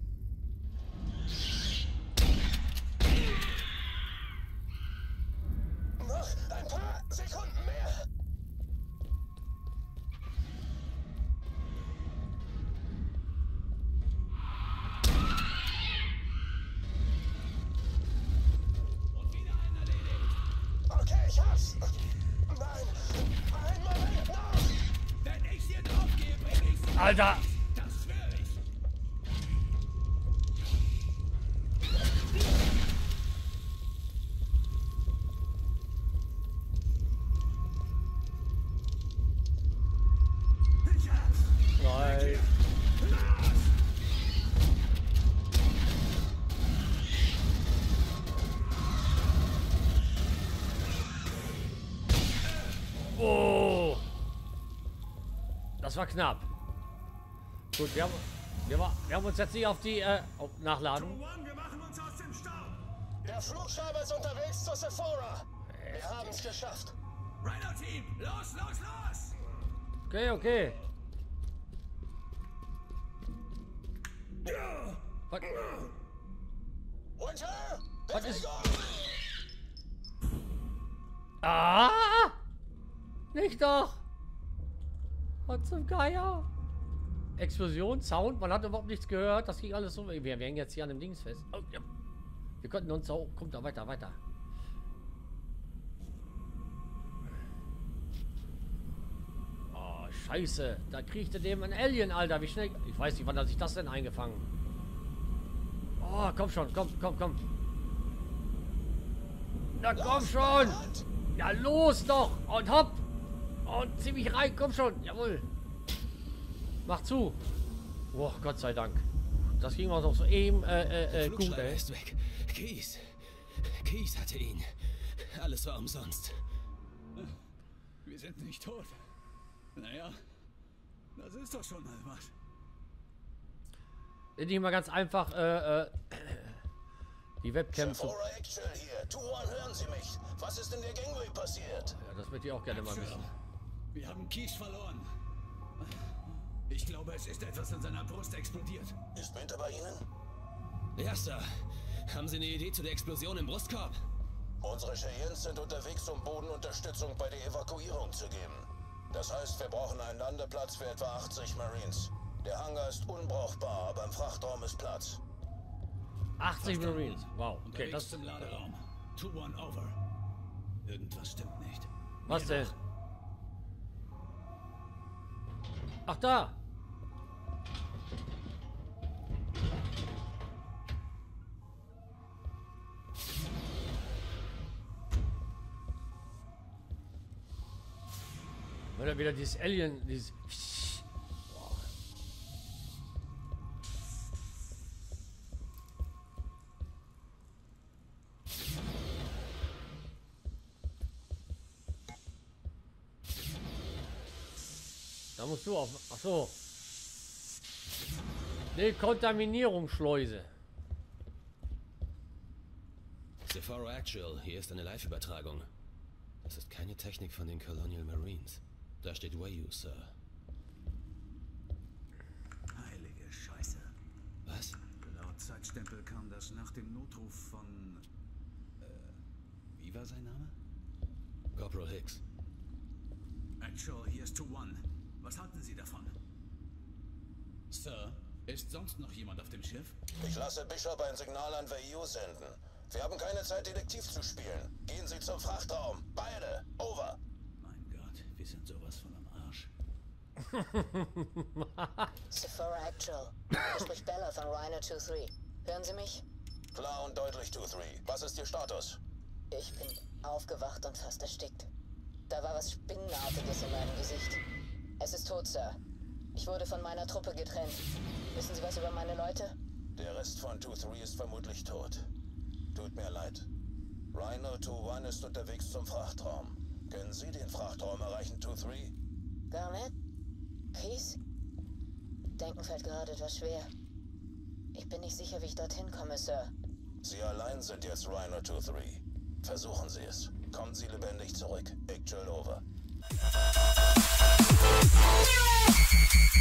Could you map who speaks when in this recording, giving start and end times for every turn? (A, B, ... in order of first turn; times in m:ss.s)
0:06.0-0:08.0 A
0:19.1-0:20.3 B
0:20.9-0:21.9 A
0:22.5-0:24.8 A
0:25.2-0:28.6 B
0:26.9-0:27.4 C
0:40.8-0:43.7 A
0:41.8-0:42.4 C
0:53.1-0:54.0 C
0:55.8-0:56.4 C
0:57.7-1:01.2 C
1:00.9-1:05.4 A
1:05.7-1:06.4 C
1:06.0-1:06.9 A
1:07.4-1:09.4 B
1:10.1-1:10.8 C
1:17.2-1:19.0 D
1:18.1-1:18.5 C
1:21.4-1:22.4 C
1:23.3-1:24.0 C
1:25.5-1:26.4 C
1:27.4-1:31.8 C
1:32.6-1:34.2 C
1:39.7-1:44.5 C
1:46.0-1:47.4 C
1:49.8-1:50.8 C
1:49.9-1:51.0 D
1:51.3-1:53.0 C
1:53.6-1:55.5 C
1:56.8-1:57.4 C
1:58.1-1:59.1 C
1:59.6-2:01.8 C
2:01.1-2:03.2 E
2:03.8-2:06.4 E
2:08.0-2:09.0 B
2:09.8-2:10.2 B
2:11.2-2:12.3 B
2:14.4-2:16.6 C
2:17.4-2:18.2 C
2:17.7-2:22.0 D
2:22.0-2:23.3 C
2:22.7-2:23.2 B
2:23.9-2:25.0 B
2:26.7-2:29.0 B
2:29.1-2:30.1 D
2:31.0-2:31.5 E
2:32.1-2:34.0 E
2:34.6-2:45.2 D
2:46.4-2:48.2 C
2:46.6-2:50.0 B
2:50.8-2:52.7 B
2:52.2-2:52.7 C
2:56.0-2:56.6 C
3:08.9-3:11.9 C
3:25.4-3:26.6 C
3:28.7-3:30.5 C
3:33.4-3:35.7 E
3:36.4-3:40.1 E
3:42.7-3:43.9 B
3:44.4-3:44.9 E
3:44.9-3:48.0 B
3:48.8-3:49.1 B
3:49.8-3:50.5 B
3:51.5-3:52.2 E
3:53.6-3:56.1 B
3:57.7-3:59.9 B
4:00.2-4:07.2 D
4:07.6-4:09.7 B
4:10.5-4:12.1 C
4:12.3-4:16.2 F
4:16.7-4:19.0 D
4:19.5-4:21.7 F
4:22.3-4:24.4 F
4:25.0-4:25.8 F
4:26.3-4:29.6 F
4:29.9-4:32.1 D
4:32.7-4:33.5 D
4:34.1-4:38.9 D
4:39.5-4:39.9 F
4:40.7-4:41.2 F
4:42.4-4:43.7 F
4:44.7-4:46.5 F
4:47.0-4:52.6 D